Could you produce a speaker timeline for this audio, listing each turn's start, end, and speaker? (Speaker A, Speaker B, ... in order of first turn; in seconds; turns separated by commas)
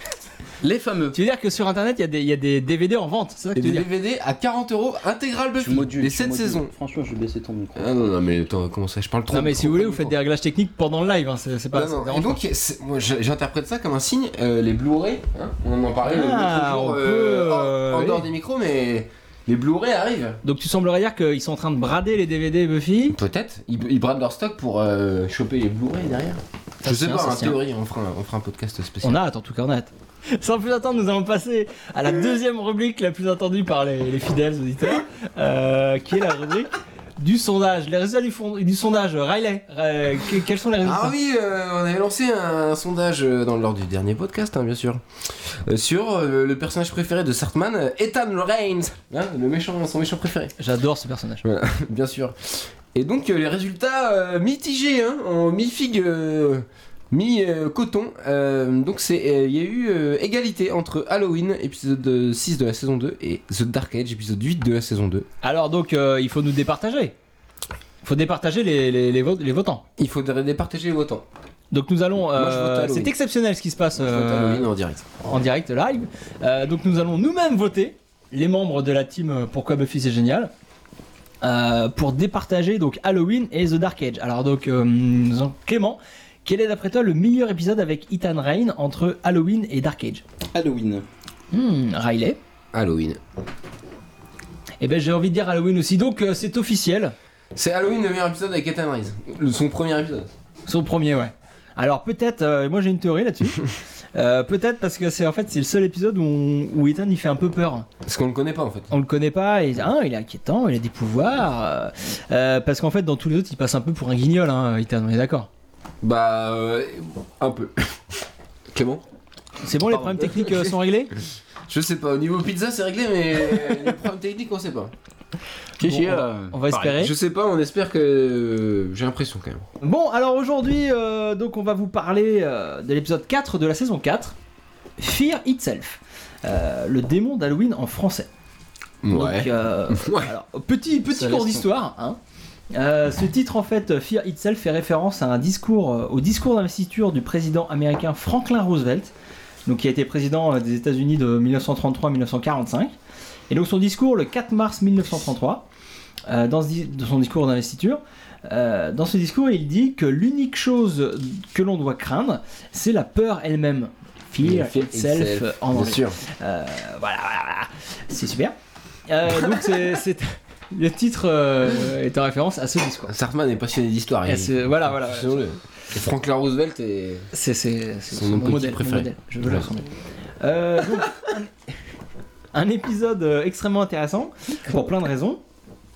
Speaker A: 0.6-1.2, Speaker B: 1.1-3.9, Speaker C: 3.5-6.7, Speaker A: 5.6-8.1, Speaker C: 7.8-10.1, Speaker B: 9.3-12.4, Speaker C: 11.7-20.4, Speaker B: 16.0-18.3, Speaker B: 20.4-23.2, Speaker C: 23.1-29.2, Speaker B: 26.8-27.6, Speaker B: 29.0-41.1, Speaker C: 40.8-50.5, Speaker B: 50.6-51.4, Speaker C: 51.4-65.3, Speaker B: 65.4-67.2, Speaker B: 68.0-69.8, Speaker C: 70.0-71.2, Speaker B: 71.7-74.7, Speaker C: 72.3-73.1, Speaker C: 74.0-75.1, Speaker B: 75.2-80.5, Speaker B: 81.4-90.2, Speaker A: 90.5-91.0, Speaker B: 91.5-92.4, Speaker C: 92.7-93.2, Speaker B: 94.8-97.1, Speaker C: 97.5-100.3, Speaker B: 100.7-107.9, Speaker C: 108.0-108.9, Speaker B: 108.9-115.5, Speaker C: 116.0-118.0, Speaker C: 118.7-119.0, Speaker B: 119.6-121.1, Speaker C: 119.8-120.7, Speaker C: 121.7-124.9, Speaker A: 125.8-127.0, Speaker B: 125.8-127.1, Speaker C: 127.0-129.7, Speaker B: 129.8-134.3, Speaker B: 135.0-138.3, Speaker C: 139.0-140.3, Speaker B: 139.1-142.2, Speaker A: 141.1-141.6, Speaker B: 142.7-149.1, Speaker B: 149.7-152.9, Speaker B: 153.5-155.6, Speaker B: 156.3-168.5, Speaker C: 164.4-166.2, Speaker B: 169.1-173.1, Speaker C: 169.3-169.7, Speaker C: 173.1-177.3, Speaker B: 174.2-175.4, Speaker B: 177.3-179.9, Speaker C: 178.1-179.7, Speaker B: 180.4-181.5, Speaker B: 182.5-185.4